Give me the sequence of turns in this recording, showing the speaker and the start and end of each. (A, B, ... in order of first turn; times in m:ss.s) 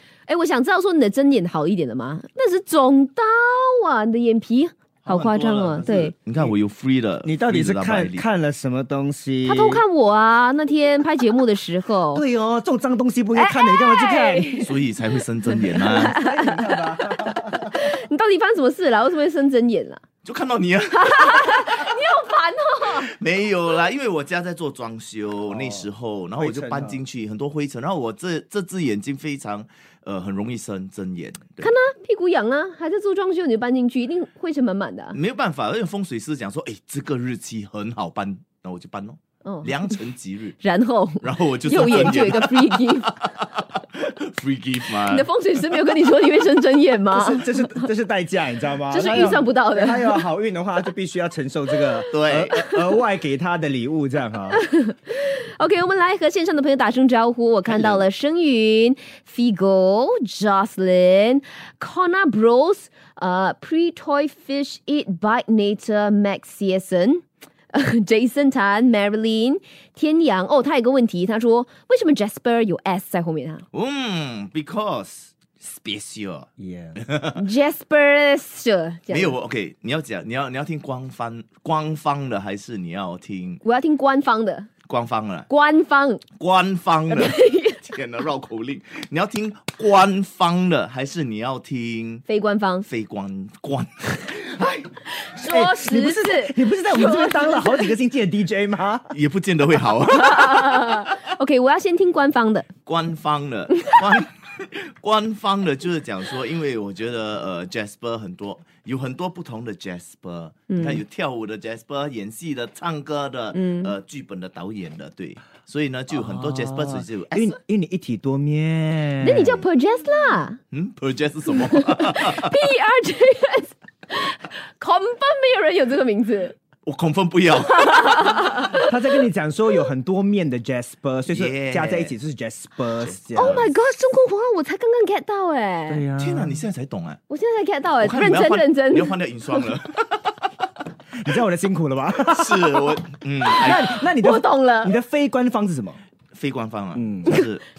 0:00.3-0:06.1 A
0:05.0-0:08.2 B
0:07.2-0:09.8 C
0:09.4-0:12.2 A
0:12.1-0:14.6 C
0:13.4-0:14.7 A
0:14.6-0:16.2 B
0:15.6-0:20.0 A
0:15.7-0:17.9 C
0:20.2-0:21.7 B
0:20.9-0:23.1 A
0:23.0-0:31.7 B
0:25.5-0:27.0 C
0:31.6-0:35.2 A
0:35.1-0:40.6 B
0:39.4-0:39.7 A
0:40.6-0:43.2 A
0:41.2-0:45.3 B
0:45.1-0:47.9 A
0:47.1-0:54.6 C
0:48.9-0:50.2 A
0:52.1-0:52.6 B
0:54.5-1:13.6 A
0:57.7-0:58.0 B
1:13.7-1:17.4 B
1:16.6-1:17.0 C
1:17.4-1:19.4 A
1:19.1-1:23.6 B
1:23.6-1:24.7 A
1:24.9-1:25.5 B
1:25.5-1:26.2 A
1:26.4-1:32.2 B
1:27.1-1:27.8 A
1:32.3-1:32.9 A
1:32.9-1:34.9 B
1:35.2-1:37.9 A
1:35.5-1:39.1 C
1:39.1-1:41.0 B
1:40.1-1:42.7 A
1:42.9-1:57.6 B
1:50.7-1:51.0 A
1:53.5-1:53.9 A
1:56.1-1:59.6 C
1:59.2-2:00.6 A
2:00.7-2:02.6 B
2:01.5-2:06.6 A
2:06.8-2:08.4 B
2:07.7-2:08.9 A
2:08.8-2:13.7 C
2:11.3-2:12.1 B
2:13.0-2:13.7 B
2:13.4-2:16.0 A
2:15.9-2:16.6 C
2:16.2-2:17.2 B
2:17.3-2:19.2 A
2:18.0-2:20.3 B
2:21.2-2:26.0 C
2:22.2-2:24.0 B
2:24.2-2:25.0 A
2:26.3-2:27.6 B
2:27.0-2:27.4 C